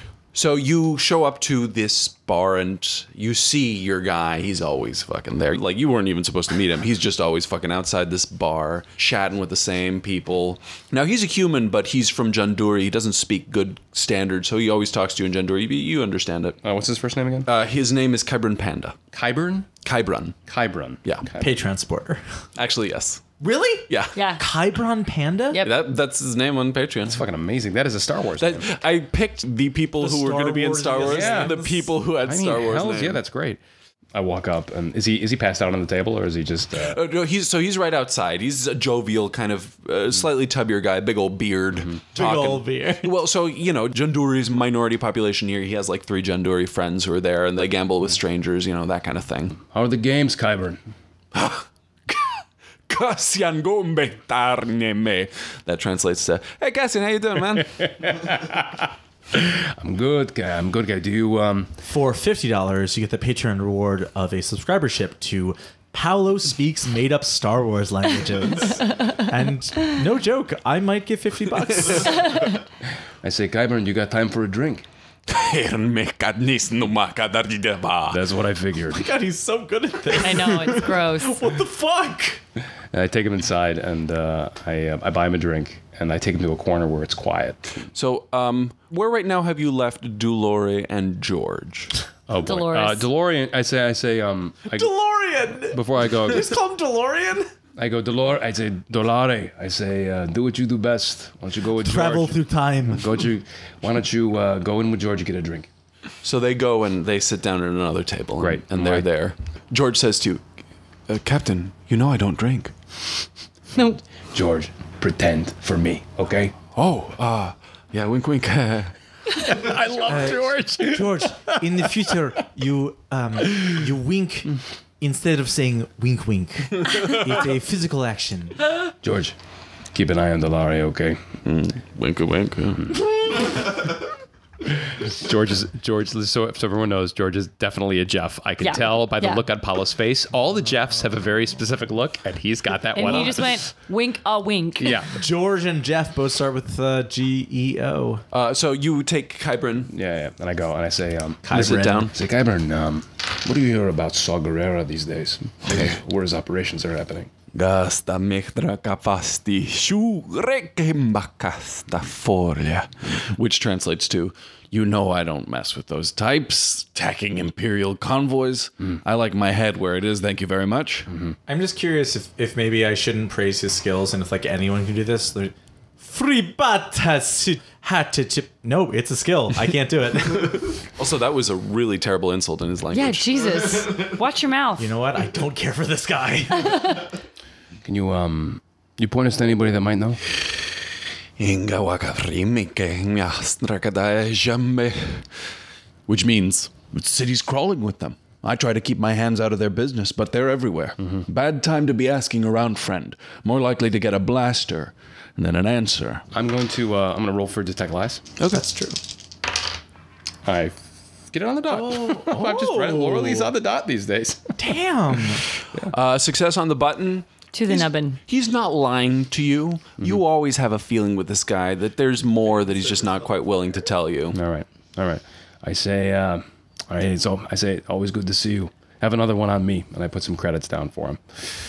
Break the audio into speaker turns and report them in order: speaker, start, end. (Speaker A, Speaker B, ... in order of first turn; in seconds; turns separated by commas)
Speaker A: 0.3-16.6, Speaker B: 16.6-17.5, Speaker A: 17.5-19.0, Speaker B: 19.1-19.7, Speaker A: 19.8-20.4, Speaker B: 20.5-21.5, Speaker C: 21.4-22.3, Speaker A: 22.6-23.3, Speaker C: 23.4-25.6, Speaker A: 23.9-24.2, Speaker D: 24.1-24.4, Speaker D: 25.5-25.8, Speaker A: 25.6-27.2, Speaker B: 27.1-28.8, Speaker A: 28.4-33.2, Speaker C: 30.0-31.9, Speaker B: 31.0-31.6, Speaker B: 32.2-33.6, Speaker B: 34.1-37.0, Speaker A: 36.8-49.6, Speaker C: 42.1-43.1, Speaker B: 49.6-50.8, Speaker A: 51.3-57.9, Speaker B: 57.6-61.8, Speaker C: 61.8-72.5, Speaker B: 73.2-74.8, Speaker A: 75.3-78.3, Speaker B: 78.1-79.1, Speaker C: 78.9-82.4, Speaker D: 80.2-81.4, Speaker B: 82.9-87.8, Speaker A: 87.9-92.0, Speaker B: 92.3-94.9, Speaker D: 92.5-93.1, Speaker C: 94.7-97.5, Speaker B: 95.7-96.5, Speaker B: 97.8-102.4, Speaker C: 101.8-103.3, Speaker B: 102.9-105.7, Speaker A: 106.2-110.4, Speaker B: 108.4-109.1, Speaker A: 111.1-112.7, Speaker D: 113.8-114.0, Speaker B: 114.3-116.5, Speaker A: 116.8-118.9, Speaker B: 119.3-121.9, Speaker C: 120.0-128.6, Speaker B: 129.0-129.3, Speaker B: 129.9-131.2, Speaker A: 131.4-133.5, Speaker B: 134.9-143.7, Speaker D: 138.6-139.4, Speaker D: 142.9-145.0, Speaker B: 144.8-145.1, Speaker C: 145.1-148.2, Speaker A: 148.3-149.9, Speaker B: 149.9-157.3, Speaker C: 151.4-152.1, Speaker A: 151.5-152.1, Speaker A: 155.7-156.0, Speaker A: 157.5-171.1, Speaker C: 171.5-180.8, Speaker A: 181.0-183.6, Speaker D: 182.9-184.9, Speaker C: 184.8-187.1, Speaker B: 187.8-190.2, Speaker A: 191.4-195.3, Speaker A: 196.1-206.3, Speaker B: 206.3-208.2, Speaker A: 208.4-208.6, Speaker C: 208.5-209.0, Speaker B: 210.4-210.8, Speaker B: 211.3-214.5, Speaker C: 211.7-213.5, Speaker C: 214.6-215.4, Speaker A: 215.8-224.4, Speaker D: 217.5-218.2, Speaker B: 224.3-231.4